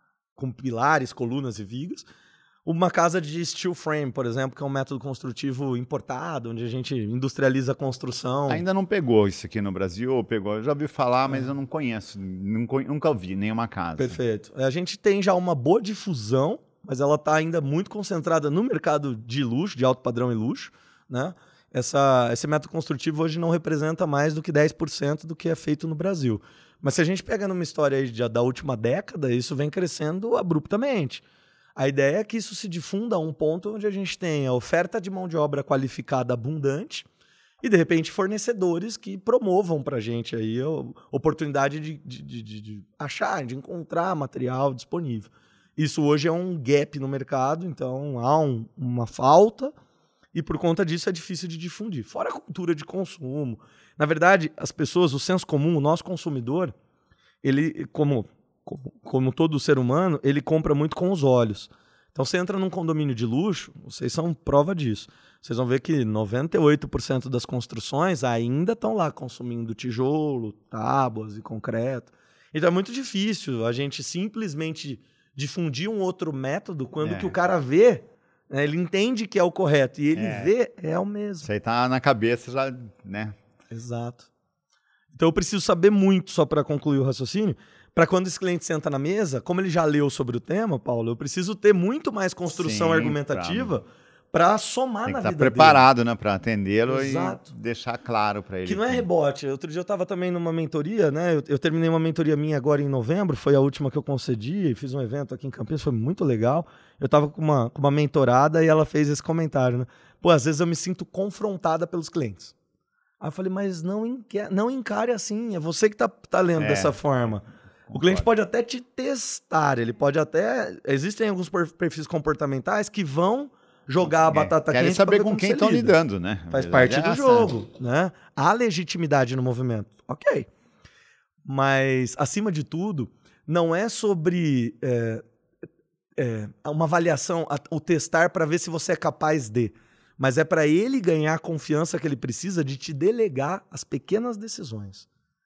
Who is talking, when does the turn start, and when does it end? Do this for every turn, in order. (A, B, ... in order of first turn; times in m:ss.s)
0:00.4-0:02.0 A
0:02.6-0:08.6 A
0:08.5-0:14.2 B
0:14.0-0:31.2 A
0:31.8-0:37.1 A
0:37.6-0:49.7 A
0:50.3-0:56.7 A
0:57.4-1:21.5 A
1:17.0-1:17.4 B
1:20.2-1:20.5 B
1:21.4-1:23.4 B
1:23.7-1:24.3 A
1:25.1-1:35.8 A
1:32.5-1:33.8 B
1:35.1-1:39.0 B
1:36.9-1:37.5 A
1:38.6-1:52.5 A
1:53.2-2:06.0 A
1:56.6-1:57.0 B
1:57.9-1:58.3 B
2:04.0-2:07.5 B
2:06.5-2:10.5 A
2:11.4-2:15.2 A
2:16.2-2:25.1 A